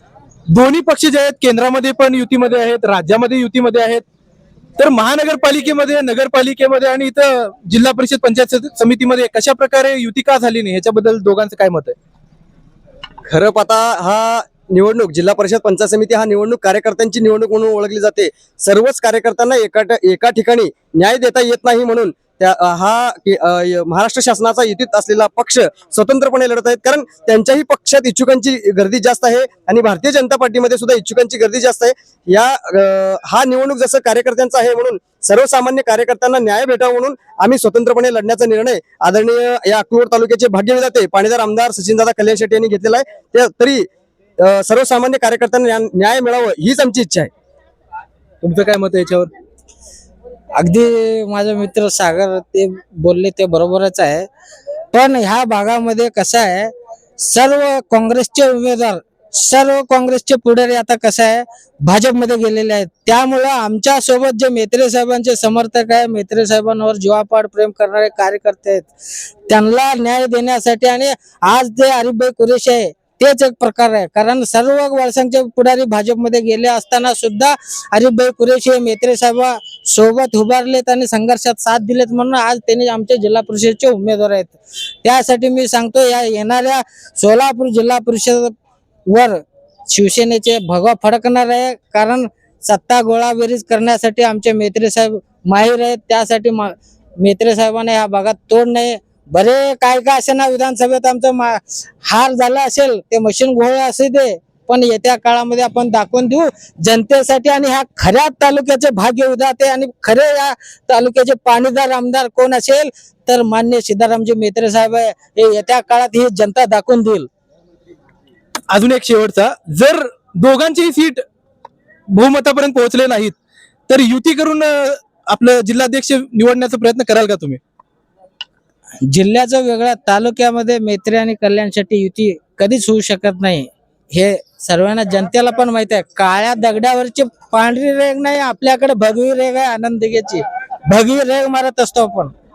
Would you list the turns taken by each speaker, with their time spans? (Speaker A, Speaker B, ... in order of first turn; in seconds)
Speaker A: 0.5-4.0, 4.8-12.0, 48.4-49.3, 118.7-121.2, 122.1-123.4, 123.9-127.6
Speaker B: 13.3-43.9, 44.4-47.3
Speaker C: 50.6-54.3, 54.9-68.9, 69.5-88.5, 89.1-117.3, 129.0-142.3